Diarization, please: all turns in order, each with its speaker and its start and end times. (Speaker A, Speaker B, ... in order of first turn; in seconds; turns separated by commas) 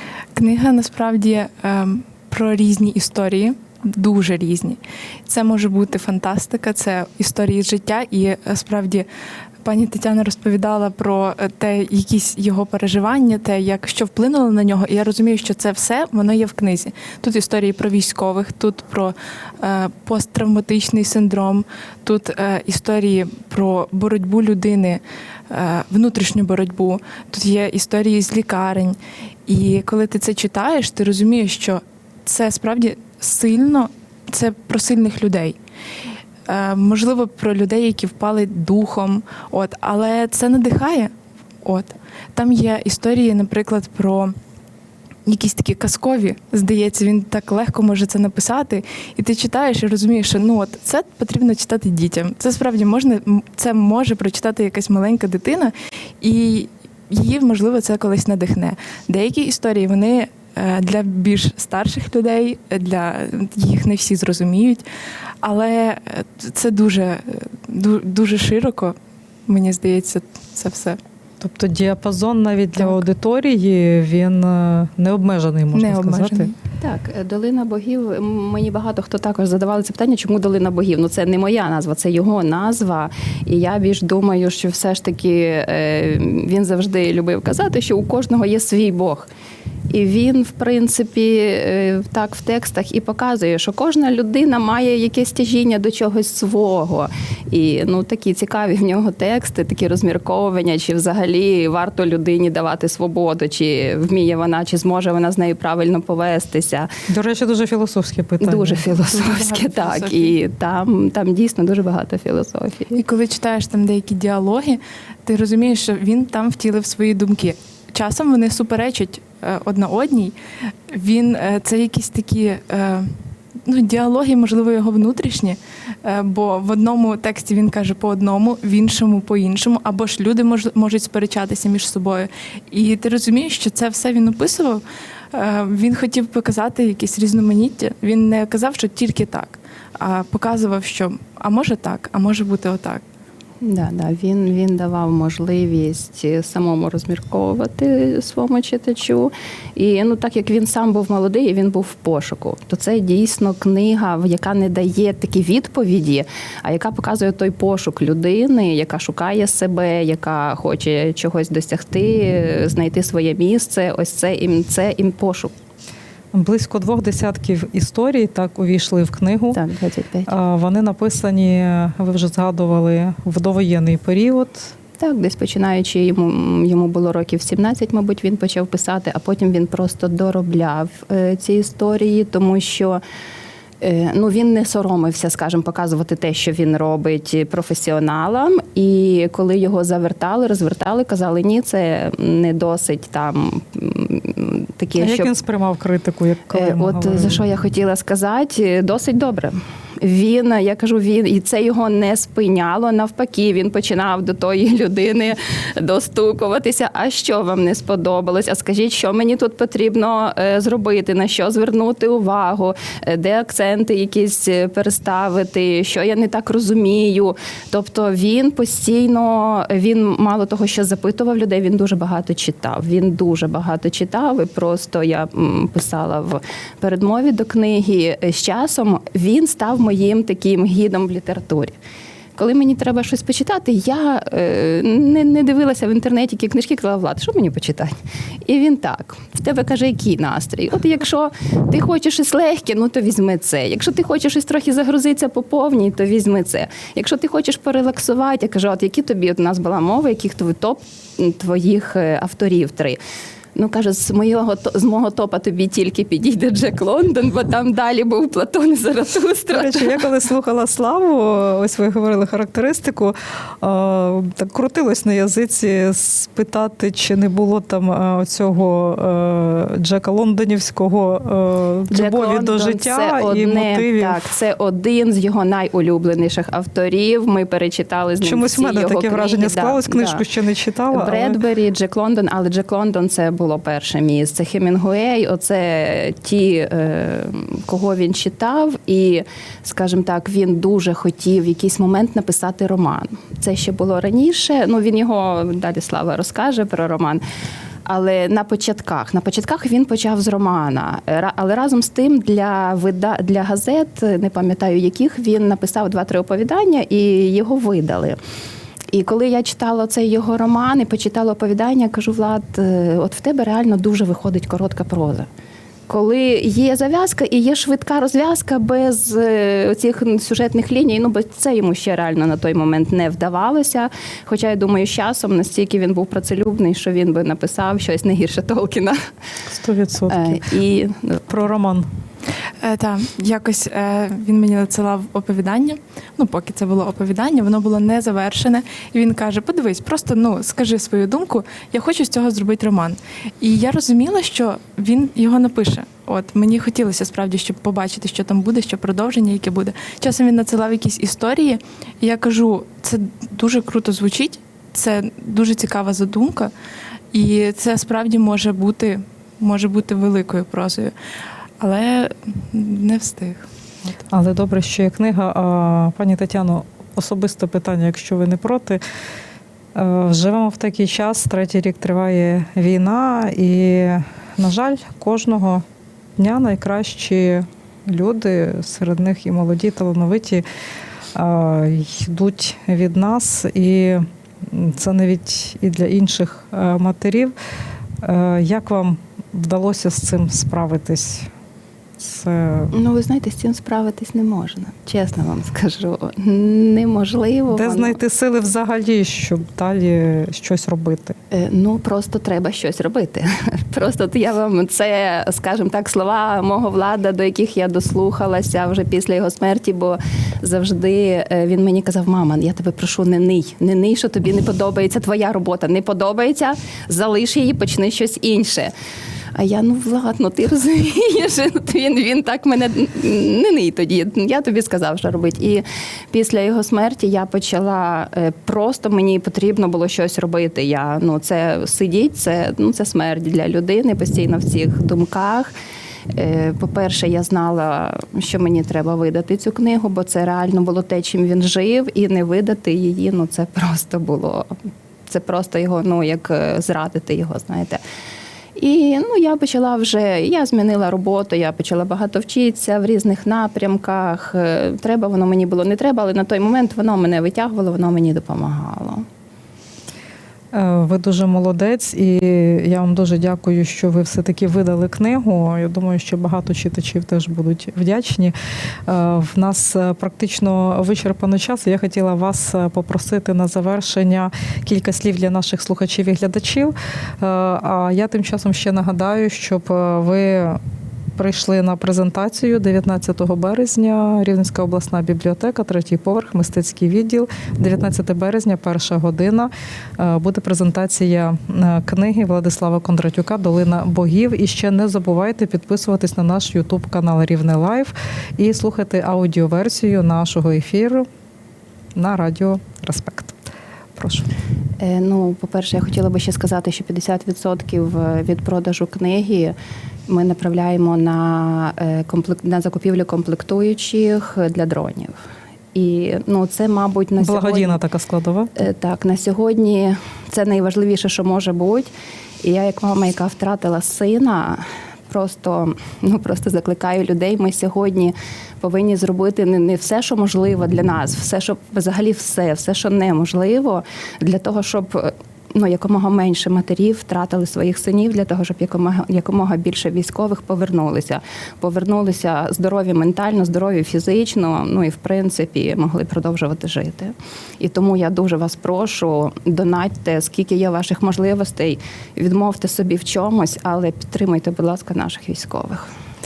Speaker A: 0.3-9.1, Speaker A: 9.6-35.6, Speaker A: 36.5-41.1, Speaker A: 41.6-44.3, Speaker A: 45.2-64.8, Speaker A: 65.4-71.0, Speaker B: 71.4-76.5, Speaker A: 75.7-76.5, Speaker C: 76.8-89.3, Speaker C: 89.9-106.9, Speaker B: 107.1-108.8, Speaker C: 108.4-113.0, Speaker A: 109.0-110.3, Speaker A: 113.0-143.0, Speaker C: 143.6-165.5, Speaker B: 166.3-169.6, Speaker C: 169.5-170.3, Speaker B: 170.3-174.7, Speaker C: 175.0-183.0, Speaker C: 183.8-195.3, Speaker B: 195.0-197.4, Speaker C: 196.5-231.7, Speaker C: 232.3-237.9, Speaker C: 238.4-253.0, Speaker C: 253.6-260.0, Speaker B: 259.5-274.3, Speaker C: 271.9-280.2, Speaker B: 278.2-281.4, Speaker C: 280.9-297.2, Speaker C: 297.9-308.2, Speaker C: 308.9-315.3, Speaker C: 315.9-329.0, Speaker B: 329.5-330.5, Speaker C: 330.1-331.2, Speaker B: 331.3-331.9, Speaker A: 332.6-356.5, Speaker A: 357.1-360.9, Speaker A: 361.6-363.5, Speaker B: 364.1-368.8, Speaker B: 369.7-375.6, Speaker B: 376.2-380.4, Speaker B: 381.1-387.3, Speaker B: 388.0-391.3, Speaker B: 392.0-392.7, Speaker C: 392.7-398.0, Speaker B: 397.5-401.2, Speaker C: 401.3-418.7, Speaker C: 419.3-435.5, Speaker C: 436.1-444.5, Speaker C: 445.1-447.8, Speaker C: 448.6-459.0, Speaker B: 460.5-468.3, Speaker B: 468.9-480.6, Speaker B: 481.2-501.1, Speaker B: 501.9-503.4, Speaker B: 503.9-504.3, Speaker C: 504.8-509.5, Speaker C: 510.1-515.2, Speaker C: 515.7-517.8, Speaker B: 517.2-518.7, Speaker C: 518.5-555.9